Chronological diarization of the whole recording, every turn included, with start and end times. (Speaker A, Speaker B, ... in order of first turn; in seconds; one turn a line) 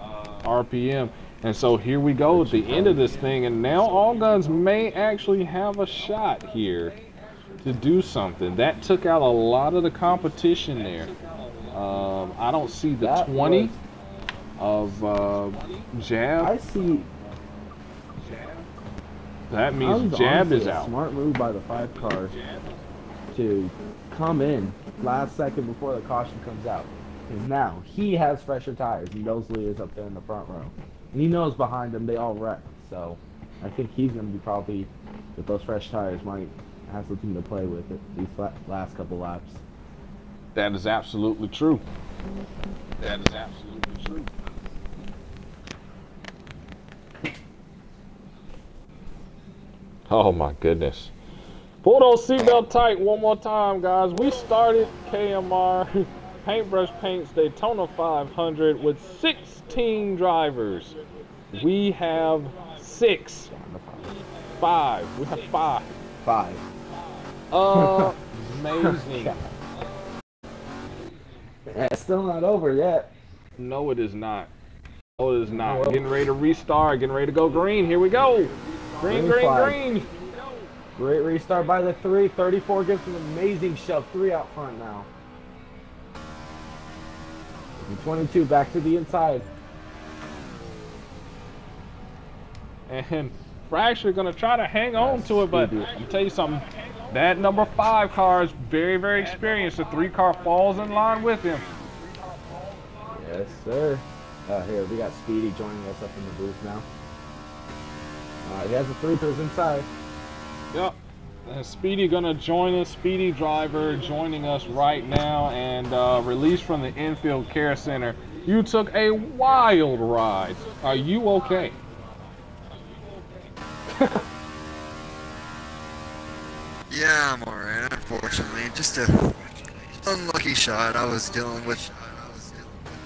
Speaker A: 0.4-7.0
Speaker B: 2.3-3.2
Speaker A: 7.6-11.1
Speaker A: 11.7-13.7
Speaker B: 13.0-13.8
Speaker A: 14.6-16.5
Speaker B: 16.4-17.1
Speaker A: 18.3-18.5
Speaker A: 19.5-20.9
Speaker B: 19.8-22.4
Speaker B: 23.3-39.6
Speaker A: 40.5-41.8
Speaker A: 43.0-44.3
Speaker A: 50.1-51.1
Speaker A: 51.8-61.0
Speaker A: 61.5-63.5
Speaker B: 63.5-64.1
Speaker A: 64.5-65.9
Speaker B: 66.2-66.7
Speaker A: 67.5-69.4
Speaker B: 67.7-68.1
Speaker B: 68.8-69.5
Speaker B: 71.7-73.1
Speaker A: 73.6-74.5
Speaker A: 75.2-80.1
Speaker B: 75.5-76.1
Speaker B: 79.0-79.8
Speaker B: 81.0-85.1
Speaker B: 87.8-89.5
Speaker A: 92.9-101.7
Speaker B: 95.0-96.1
Speaker B: 103.1-106.9
Speaker B: 108.4-109.9
Speaker A: 111.5-121.8
Speaker B: 123.9-124.2
Speaker C: 126.9-132.5